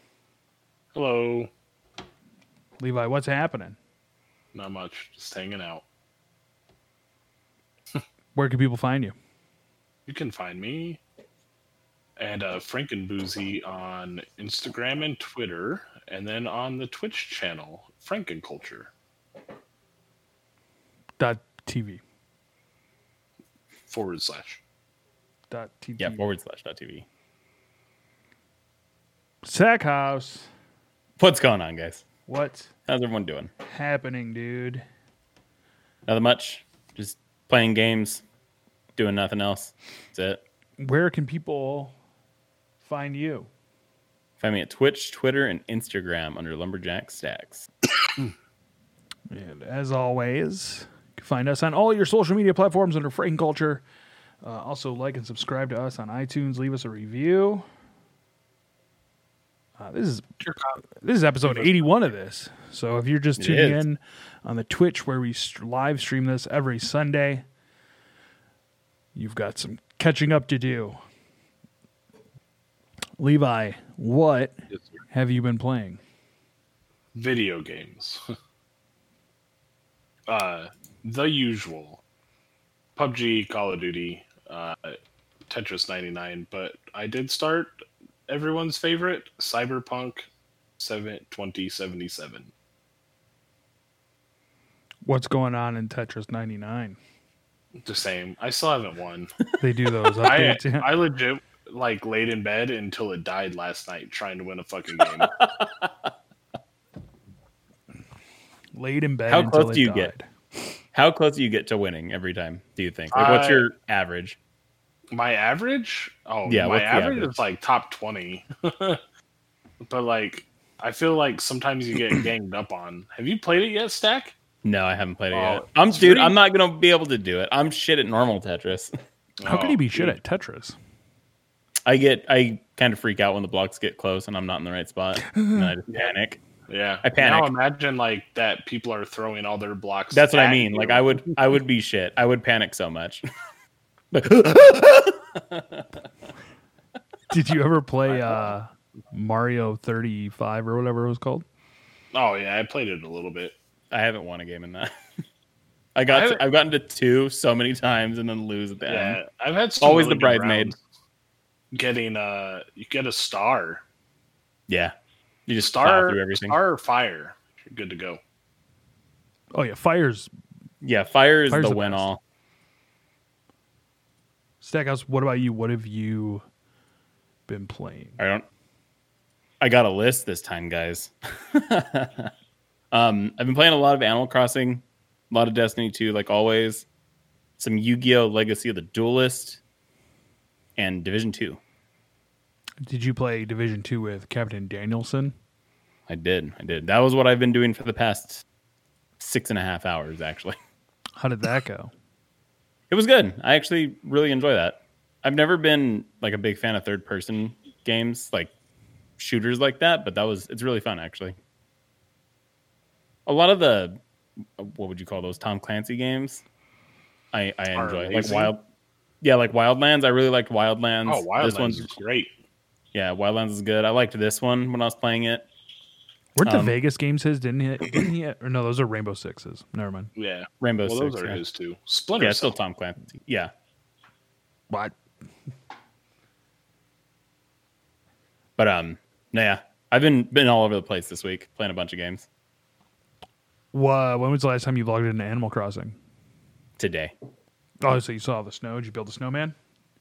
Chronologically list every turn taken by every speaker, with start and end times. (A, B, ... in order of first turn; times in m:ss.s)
0:01.0-0:01.5 A
0:02.8-0:03.8 B
0:04.5-0:05.8 A
0:08.3-0:09.2 B
0:10.1-0:11.0 A
0:12.2-0:18.9 A
0:21.2-0:22.0 B
0:23.9-0:24.6 A
0:25.5-0:26.3 B
0:26.0-0:27.0 C
0:29.4-0:30.5 B
0:31.2-0:32.0 C
0:32.3-0:32.7 B
0:32.9-0:33.5 C
0:33.6-0:34.8 B
0:36.0-0:38.2 C
0:39.0-0:40.4 C
0:40.8-0:42.0 B
0:42.8-0:43.5 B
0:44.4-0:47.7 C
0:49.3-0:53.8 B
0:54.4-0:57.6 B
0:59.8-1:00.3 B
1:00.4-1:00.8 A
1:01.0-1:07.4 B
1:01.5-1:01.7 A
1:03.4-1:03.8 C
1:09.2-1:11.0 B
1:13.2-1:14.6 B
1:15.1-1:16.0 B
1:17.1-1:18.2 A
1:20.3-1:22.0 A
1:23.0-1:27.7 A
1:28.3-1:30.3 A
1:30.8-1:32.5 A
1:35.0-1:37.0 B
1:37.8-1:39.3 A
1:39.6-1:41.0 B
1:40.2-1:45.3 A
1:45.0-1:46.1 C
1:48.8-1:50.3 B
1:49.3-1:50.1 C
1:50.9-1:54.4 C
1:53.1-1:53.7 A
1:55.1-1:59.0 A
1:56.5-1:57.4 C
1:59.8-2:04.4 A
2:04.6-2:08.9 C
2:05.3-2:06.4 A
2:09.4-2:10.2 A
2:09.5-2:10.8 B
2:11.8-2:16.4 C
2:16.7-2:21.3 A
2:17.0-2:17.5 C
2:20.1-2:23.2 C
2:24.1-2:25.9 C
2:27.3-2:31.4 B
2:32.1-2:33.6 A
2:33.9-2:34.9 C
2:36.0-2:39.2 C
2:36.1-2:36.4 A
2:38.9-2:40.8 A
2:39.8-2:40.7 C
2:41.7-2:43.8 A
2:44.7-2:44.9 C
2:45.5-2:46.6 C
2:45.6-2:48.2 A
2:49.5-2:50.3 B
2:50.8-2:52.2 C
2:51.5-2:52.1 B
2:54.6-2:56.4 B
2:57.5-2:58.2 B
2:58.2-2:58.5 C
2:59.6-3:02.3 C
3:02.9-3:06.9 C
3:07.6-3:09.6 C
3:10.8-3:11.6 C
3:12.8-3:15.3 B
3:16.1-3:18.4 C
3:19.2-3:20.6 C
3:21.2-3:21.9 B
3:22.9-3:28.5 C
3:29.2-3:31.4 C
3:33.2-3:34.0 C
3:34.6-3:36.4 C
3:37.3-3:38.6 C
3:37.8-3:38.5 A
3:39.2-3:41.9 C
3:41.1-3:42.3 A
3:42.9-3:45.4 C
3:46.3-3:50.1 B
3:46.4-3:46.8 C
3:50.2-3:52.5 A
3:50.6-3:51.4 C
3:52.2-3:53.5 C
3:54.7-3:55.0 B
3:58.6-4:02.3 C
4:03.7-4:06.0 B
4:06.8-4:07.1 C
4:07.8-4:09.6 B